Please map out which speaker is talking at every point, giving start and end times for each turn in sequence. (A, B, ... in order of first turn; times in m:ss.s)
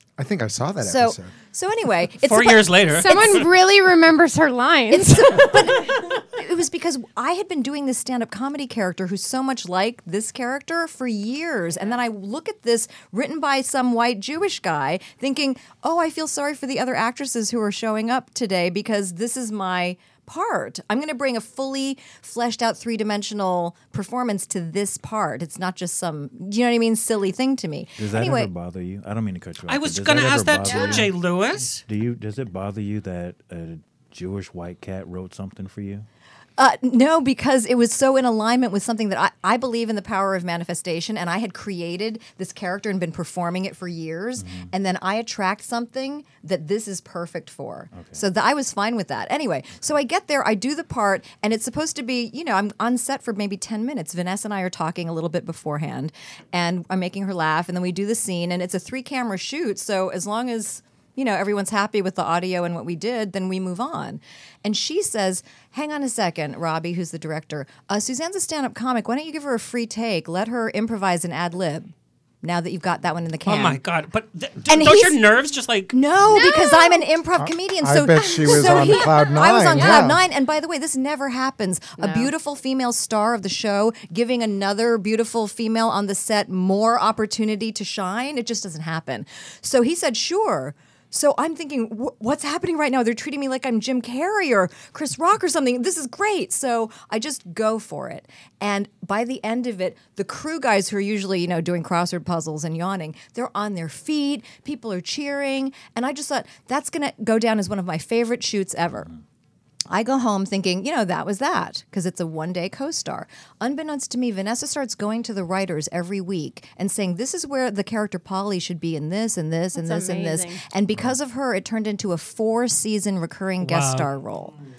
0:00.2-0:01.3 A
0:00.8-0:03.5 B
0:02.2-0:03.5 C
0:02.9-0:05.6 D
0:04.9-0:28.5 B
0:28.0-0:31.1 E
0:29.7-0:31.8 C
0:30.7-0:31.1 D
0:31.9-0:36.1 E
0:36.6-1:13.8 B
0:44.4-0:44.7 E
0:47.9-0:48.2 E
1:13.5-1:16.0 C
1:14.7-1:15.2 B
1:15.9-1:49.1 B
1:16.3-1:17.0 D
1:17.4-1:20.2 A
1:18.2-1:20.1 D
1:22.0-1:22.3 D
1:49.9-2:04.6 B
1:59.8-2:00.6 D
2:03.6-2:04.1 C